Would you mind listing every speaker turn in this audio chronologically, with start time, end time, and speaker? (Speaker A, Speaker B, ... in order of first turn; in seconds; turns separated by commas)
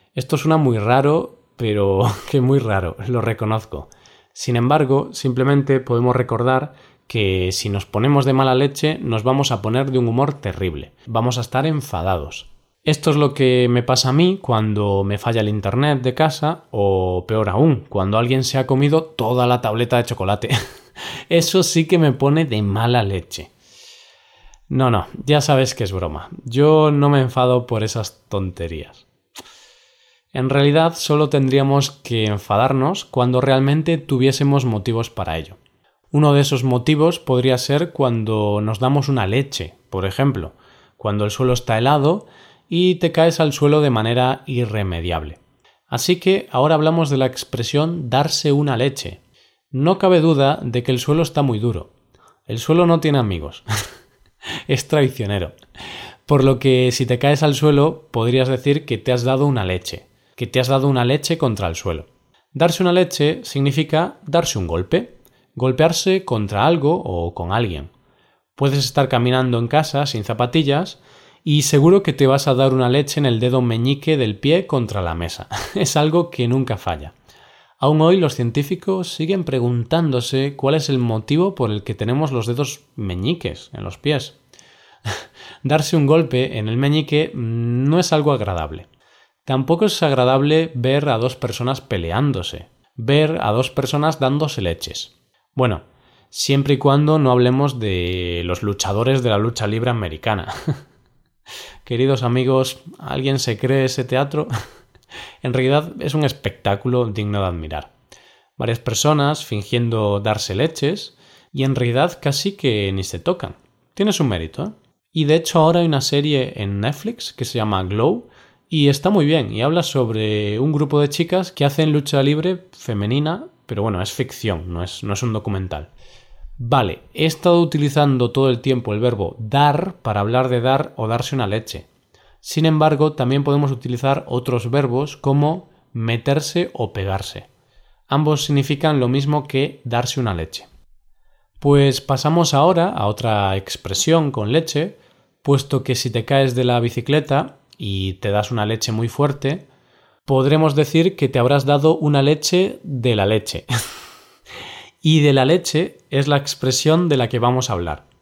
Speaker A: 0.1-20.6, Speaker A: 21.3-23.5, Speaker A: 24.7-29.1, Speaker A: 30.3-35.6, Speaker A: 36.1-49.2, Speaker A: 49.7-51.9, Speaker A: 52.5-53.6, Speaker A: 54.7-55.6, Speaker A: 56.3-67.9, Speaker A: 68.6-77.1, Speaker A: 77.8-84.4, Speaker A: 85.6-88.9, Speaker A: 89.5-100.8, Speaker A: 101.8-104.5, Speaker A: 105.4-107.9, Speaker A: 108.6-125.9, Speaker A: 126.6-131.9, Speaker A: 132.4-137.5, Speaker A: 138.1-140.7, Speaker A: 141.6-149.7, Speaker A: 150.3-153.7, Speaker A: 155.0-158.1